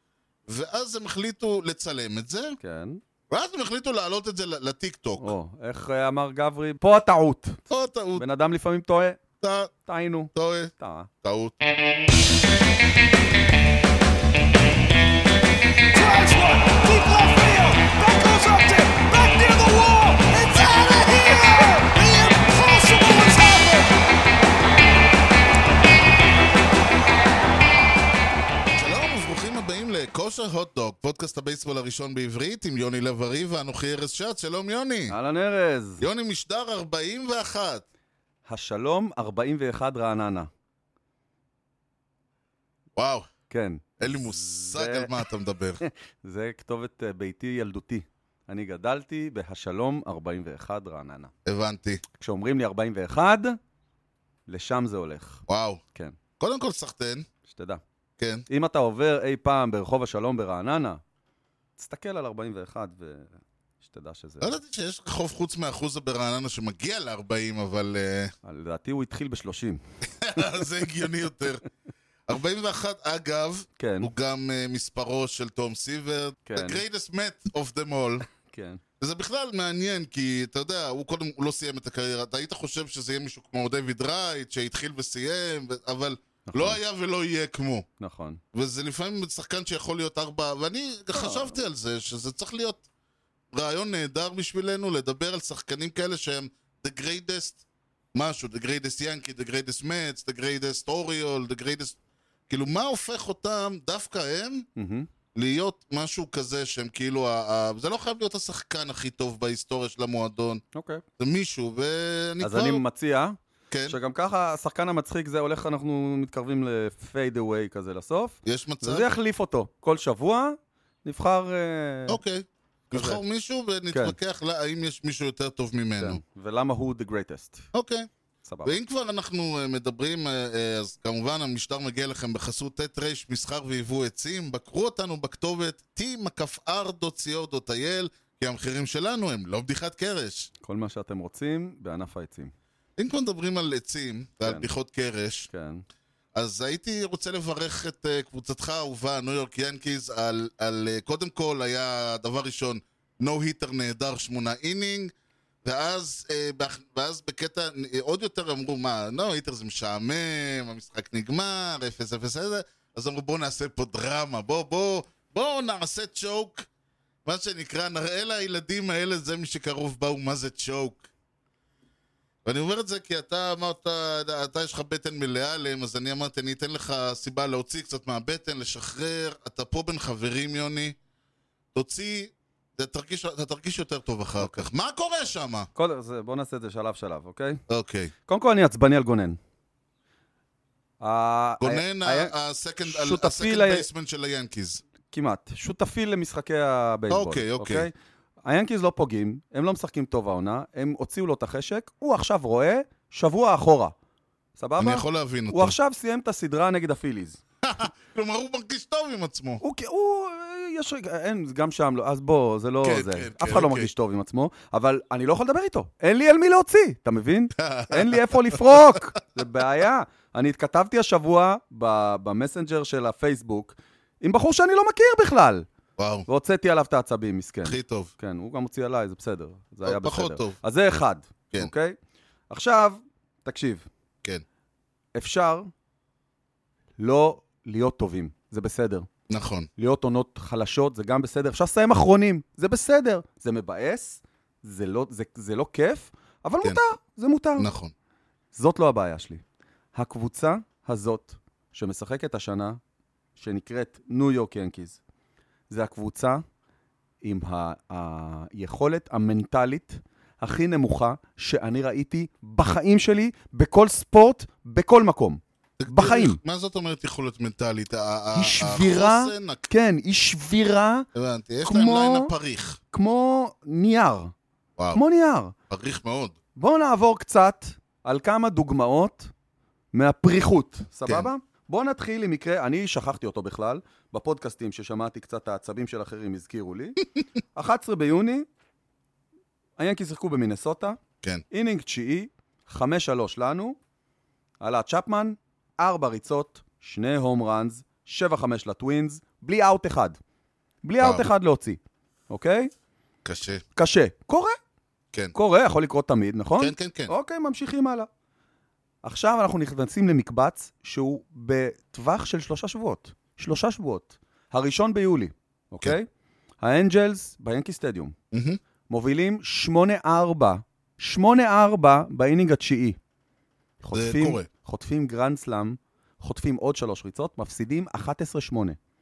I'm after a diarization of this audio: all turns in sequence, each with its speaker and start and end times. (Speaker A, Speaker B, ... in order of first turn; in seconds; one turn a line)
Speaker A: 0.5-2.6
Speaker B: 2.6-3.0
Speaker A: 3.3-5.3
Speaker B: 5.2-7.6
Speaker A: 7.7-8.2
Speaker B: 8.2-9.2
Speaker A: 9.4-9.7
Speaker B: 9.9-11.1
Speaker A: 10.3-11.6
Speaker C: 15.9-23.9
Speaker A: 20.5-21.7
Speaker A: 28.8-35.1
Speaker B: 35.1-36.0
Speaker A: 36.0-37.9
Speaker B: 38.5-40.5
Speaker A: 43.0-43.3
Speaker B: 43.5-45.1
Speaker A: 44.0-45.8
Speaker B: 45.8-51.3
Speaker A: 51.5-52.0
Speaker B: 52.1-53.6
Speaker B: 54.5-55.4
Speaker A: 55.5-55.8
Speaker A: 56.4-57.3
Speaker B: 57.5-57.8
Speaker A: 58.2-58.5
Speaker B: 58.5-61.0
Speaker B: 61.8-64.5
Speaker A: 64.4-68.3
Speaker B: 68.4-69.8
Speaker A: 70.2-71.7
Speaker A: 72.3-78.2
Speaker B: 73.8-74.1
Speaker B: 76.5-76.8
Speaker B: 78.4-78.8
Speaker A: 79.0-87.9
Speaker B: 86.5-86.8
Speaker B: 88.0-88.4
Speaker A: 88.5-92.8
Speaker B: 91.1-91.6
Speaker A: 93.5-97.6
Speaker A: 98.1-102.0
Speaker A: 102.5-104.7
Speaker B: 104.8-105.1
Speaker A: 105.3-110.6
Speaker B: 110.7-111.0
Speaker A: 111.2-112.8
Speaker B: 112.4-122.2
Speaker A: 113.7-114.0
Speaker A: 118.5-119.1
Speaker A: 122.1-126.2
Speaker B: 122.9-123.2
Speaker B: 123.9-124.2
Speaker B: 126.0-127.7
Speaker A: 127.7-128.1
Speaker B: 128.4-128.8
Speaker A: 128.6-140.5
Speaker B: 140.6-142.5
Speaker A: 143.0-145.5
Speaker B: 144.4-144.7
Speaker B: 145.5-145.8
Speaker A: 146.3-155.1
Speaker A: 155.6-166.7
Speaker A: 167.2-171.1
Speaker A: 172.4-181.0
Speaker A: 181.7-185.7
Speaker B: 184.4-184.7
Speaker B: 185.8-187.6
Speaker A: 187.7-188.1
Speaker B: 188.3-189.4
Speaker B: 191.0-193.9
Speaker A: 191.6-194.8
Speaker B: 195.1-197.9
Speaker A: 197.1-197.9
Speaker B: 198.4-203.9
Speaker B: 204.6-207.4
Speaker A: 204.8-205.8
Speaker A: 207.6-209.6
Speaker B: 209.6-225.7
Speaker A: 212.8-213.9
Speaker A: 217.6-219.0
Speaker A: 226.0-226.3
Speaker B: 226.3-232.0
Speaker A: 227.7-228.1
Speaker A: 229.8-230.6
Speaker B: 232.5-233.9
Speaker B: 235.2-235.7
Speaker B: 237.0-239.1
Speaker A: 239.3-239.7
Speaker B: 239.8-247.7
Speaker A: 247.6-247.9
Speaker B: 248.6-249.4
Speaker B: 249.9-252.8
Speaker B: 253.4-255.0
Speaker B: 255.7-256.4
Speaker B: 257.2-266.4
Speaker A: 265.8-269.7
Speaker B: 268.4-271.1
Speaker A: 271.1-272.8
Speaker B: 271.6-272.3
Speaker B: 272.9-274.3
Speaker B: 274.9-275.5
Speaker A: 275.7-276.4
Speaker B: 276.6-279.3
Speaker B: 279.9-287.0
Speaker B: 287.6-288.5
Speaker B: 289.8-293.8
Speaker B: 294.6-300.2
Speaker B: 300.8-302.7
Speaker A: 303.2-303.6
Speaker B: 303.8-304.6
Speaker B: 305.3-308.1
Speaker A: 306.6-307.1
Speaker B: 309.0-316.1
Speaker B: 316.6-318.1
Speaker A: 318.3-318.6
Speaker B: 318.9-323.0
Speaker B: 323.8-328.8
Speaker A: 323.9-324.5